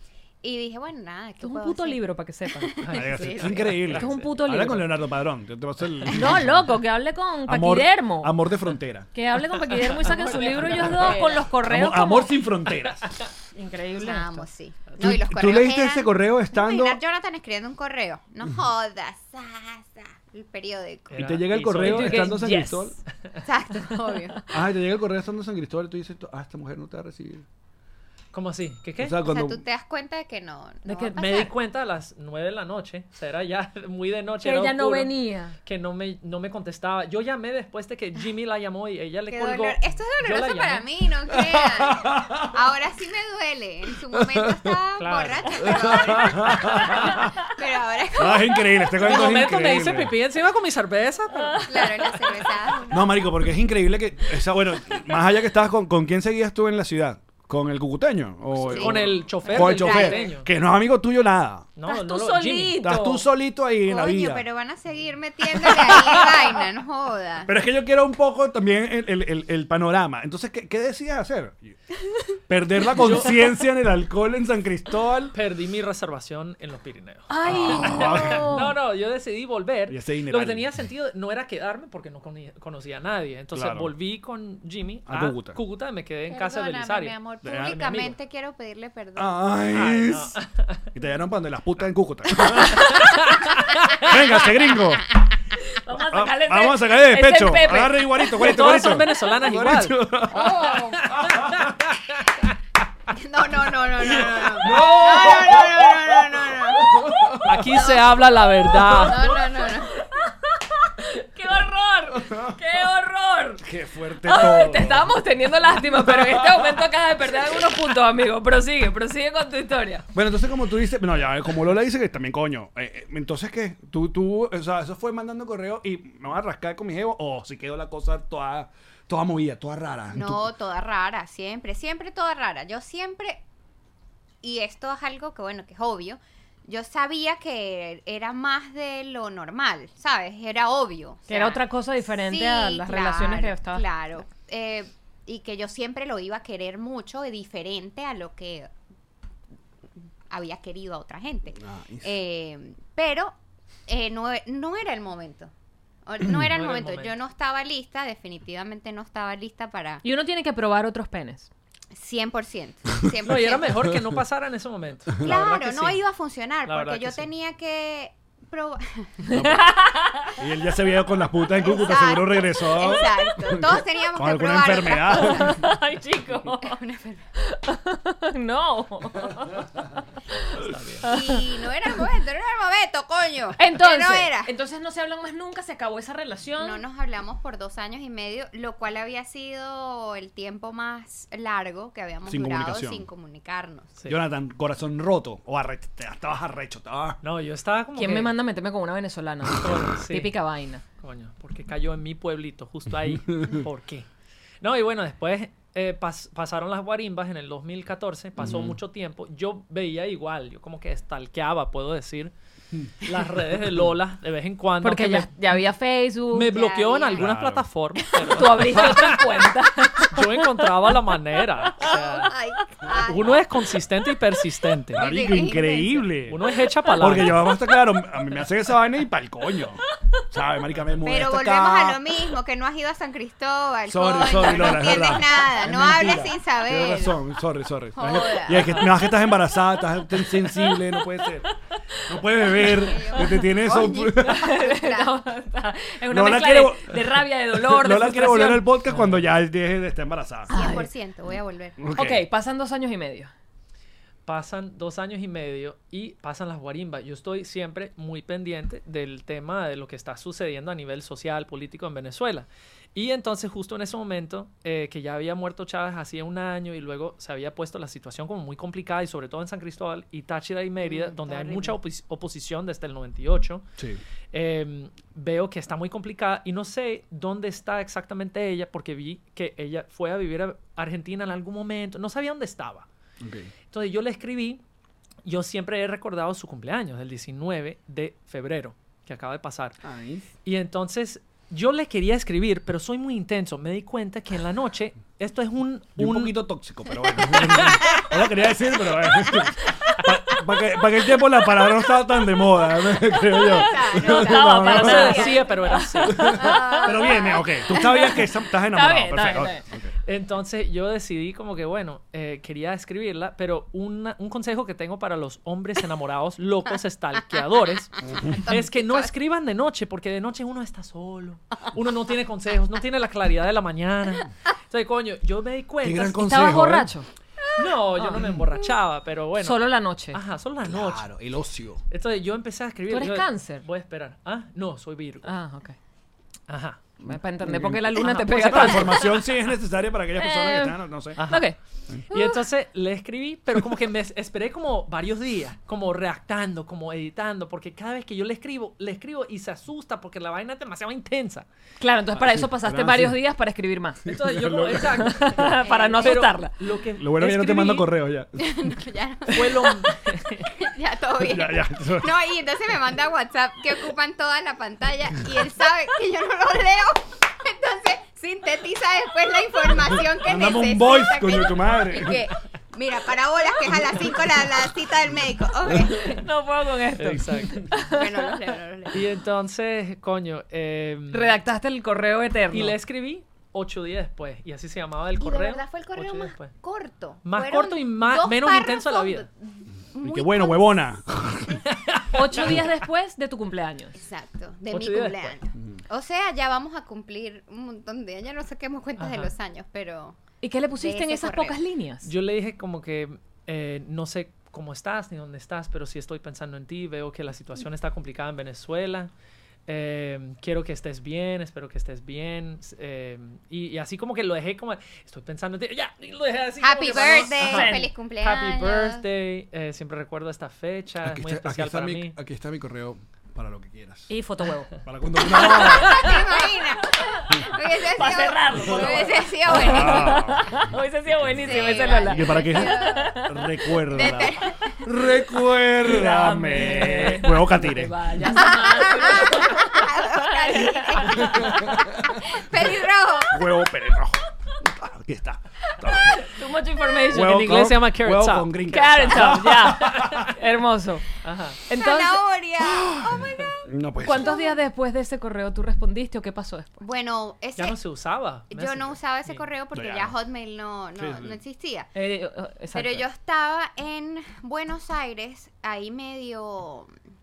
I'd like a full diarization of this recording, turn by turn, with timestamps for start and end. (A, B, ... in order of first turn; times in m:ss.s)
0:00.4-0:03.8 A
0:01.4-0:02.8 B
0:02.8-0:04.3 C
0:02.9-0:06.7 D
0:04.0-0:04.9 B
0:06.1-0:08.3 B
0:07.4-0:09.1 D
0:09.1-0:12.4 B
0:09.8-0:11.2 C
0:10.6-0:11.5 A
0:11.6-0:13.1 D
0:13.6-0:14.5 B
0:14.0-0:21.2 A
0:15.0-0:17.0 D
0:21.1-0:22.4 C
0:21.2-0:23.0 D
0:21.8-0:23.0 B
0:23.4-0:24.4 A
0:24.5-0:27.4 D
0:28.3-0:29.2 C
0:29.0-0:29.6 D
0:29.2-0:31.5 A
0:30.9-0:31.2 B
0:31.1-0:35.1 C
0:34.4-0:35.6 B
0:35.7-0:40.9 C
0:39.3-0:49.0 A
0:41.3-0:42.6 D
0:44.2-0:44.7 D
0:45.0-0:45.8 C
0:45.7-0:47.3 D
0:48.2-0:50.1 D
0:49.0-0:52.0 C
0:51.5-0:51.8 B
0:51.7-0:53.3 A
0:52.9-1:01.7 D
0:58.6-1:00.3 A
0:58.7-1:00.5 C
1:01.8-1:03.0 C
1:01.9-1:03.2 B
1:02.8-1:04.4 D
1:03.9-1:07.5 A
1:05.7-1:06.2 D
1:07.5-1:11.8 D
1:12.5-1:15.4 D
1:13.0-1:13.4 C
1:15.3-1:28.2 C
1:17.3-1:18.7 B
1:17.4-1:18.6 D
1:19.9-1:20.7 D
1:23.5-1:23.9 D
1:25.1-1:25.6 D
1:26.3-1:29.4 A
1:27.4-1:27.8 D
1:29.2-1:30.4 D
1:29.7-1:30.8 C
1:30.9-1:33.2 D
1:33.0-1:34.2 C
1:34.0-1:35.1 D
1:35.7-1:38.4 B
1:36.0-1:41.7 D
1:38.4-1:40.0 C
1:40.3-1:41.0 A
1:41.0-1:42.3 C
1:43.1-1:47.1 A
1:44.0-1:47.8 D
1:47.5-1:49.2 C
1:47.7-1:48.2 A
1:49.0-1:50.0 A
1:49.3-1:53.6 B
1:52.1-1:52.6 D
1:53.6-1:55.2 D
1:54.2-2:00.1 B
1:55.7-1:56.9 D
2:00.2-2:10.5 D
2:10.1-2:13.4 A
2:14.4-2:28.7 A
2:21.3-2:23.9 B
2:30.3-2:33.3 A
2:31.6-2:32.1 D
2:33.9-2:35.5 A
2:36.1-2:40.0 A
2:36.5-2:37.2 C
2:40.0-2:41.5 B
2:41.9-2:43.9 A
2:43.2-2:46.0 C
2:45.2-2:49.3 A
2:46.6-2:47.3 C
2:49.3-2:49.8 D
2:49.3-2:50.3 B
2:50.3-2:55.6 D
2:51.6-2:55.6 A
2:55.1-2:56.8 B
2:56.6-2:57.3 A
2:57.4-2:59.7 B
3:00.6-3:01.0 C
3:01.0-3:01.6 B
3:01.0-3:04.5 A
3:03.6-3:06.8 B
3:06.6-3:13.9 A
3:12.3-3:13.1 D
3:14.1-3:17.2 D
3:17.2-3:18.4 C
3:18.0-3:20.8 B
3:19.6-3:20.4 C
3:21.0-3:24.1 C
3:23.1-3:23.6 D
3:24.6-3:32.3 C
3:28.4-3:28.8 D
3:33.0-3:35.4 C
3:34.8-3:36.6 B
3:36.3-3:42.3 C
3:36.5-3:37.2 A
3:37.2-3:37.7 D
3:38.3-3:40.4 B
3:41.8-3:43.5 A
3:43.1-3:45.0 C
3:45.0-3:46.1 A
3:45.0-3:46.4 D
3:46.3-3:47.5 C
3:47.0-3:52.0 D
3:51.0-3:57.2 A
3:53.9-4:01.5 D
3:58.0-3:58.9 A
3:58.5-3:58.9 C
4:00.2-4:00.8 B
4:02.1-4:04.5 D
4:02.6-4:05.2 A
4:04.3-4:08.7 B
4:06.1-4:10.5 D
4:08.9-4:09.3 C
4:10.5-4:10.9 B
4:10.5-4:11.8 A
4:11.8-4:12.2 D
4:12.0-4:13.3 B
4:14.3-4:33.7 C
4:30.8-4:31.8 A
4:34.3-4:42.9 C
4:43.2-4:43.5 D
4:43.7-4:44.6 C
4:45.2-4:49.8 C
4:49.8-4:50.2 D
4:50.4-4:56.4 C
4:56.0-5:05.3 D
5:03.1-5:07.8 A
5:04.0-5:09.6 B
5:04.7-5:06.4 C
5:06.2-5:09.9 D
5:10.1-5:26.2 C
5:18.1-5:19.1 A
5:25.8-5:26.9 D
5:26.2-5:27.1 B
5:27.6-5:31.1 C
5:28.0-5:28.3 B
5:29.4-5:30.2 B
5:30.7-5:31.8 D
5:31.9-5:35.3 C
5:32.9-5:33.6 B
5:35.2-5:35.8 B
5:36.5-5:36.8 C
5:37.0-5:39.1 B
5:37.1-5:41.2 D
5:38.0-5:39.1 C
5:40.2-5:41.6 B
5:41.2-5:41.5 C
5:42.1-5:51.5 C
5:51.8-5:54.1 B
5:52.1-5:53.2 D
5:54.1-5:57.9 C
5:54.1-5:55.3 D
5:55.0-5:56.5 B
5:55.6-5:56.2 A
5:57.0-5:58.7 D
5:58.4-5:59.7 A
5:59.3-6:00.5 C
6:00.6-6:16.3 A
6:01.2-6:02.1 D
6:09.9-6:12.3 D
6:13.8-6:14.1 D
6:16.1-6:18.5 B
6:17.0-6:17.6 C
6:17.8-6:19.0 A
6:18.9-6:21.4 C
6:21.1-6:22.8 B
6:22.5-6:26.5 C
6:25.2-6:30.9 A
6:27.2-6:29.3 C
6:30.0-6:31.6 D
6:31.8-6:32.7 C
6:32.1-6:34.0 B
6:34.0-6:40.2 A
6:34.7-6:35.4 C
6:39.0-6:39.3 C
6:40.4-6:42.1 B
6:40.7-6:41.6 A
6:42.0-6:49.1 C
6:49.7-7:02.2 C
6:56.6-6:59.0 A
6:57.4-6:57.9 B
7:01.0-7:04.1 D
7:04.1-7:06.4 B
7:04.8-7:06.1 D
7:05.3-7:10.2 A
7:07.0-7:14.3 B
7:09.5-7:10.6 D
7:11.2-7:14.3 D
7:11.3-7:13.2 A
7:13.9-7:14.8 A
7:14.8-7:18.0 D
7:15.8-7:21.7 B
7:18.3-7:23.4 A
7:21.2-7:21.9 D
7:23.3-7:26.2 D
7:25.8-7:27.4 B
7:27.1-7:30.3 D
7:27.1-7:30.2 C
7:28.7-7:31.1 B
7:31.2-7:31.6 C
7:31.7-7:32.2 B
7:31.7-7:34.5 A
7:32.6-7:34.4 D
7:34.0-7:36.8 B
7:36.8-7:37.8 A
7:37.6-7:39.4 C
7:38.5-7:41.9 A
7:39.7-7:40.2 D
7:41.0-7:41.4 D
7:42.0-7:43.0 B
7:42.7-7:46.9 A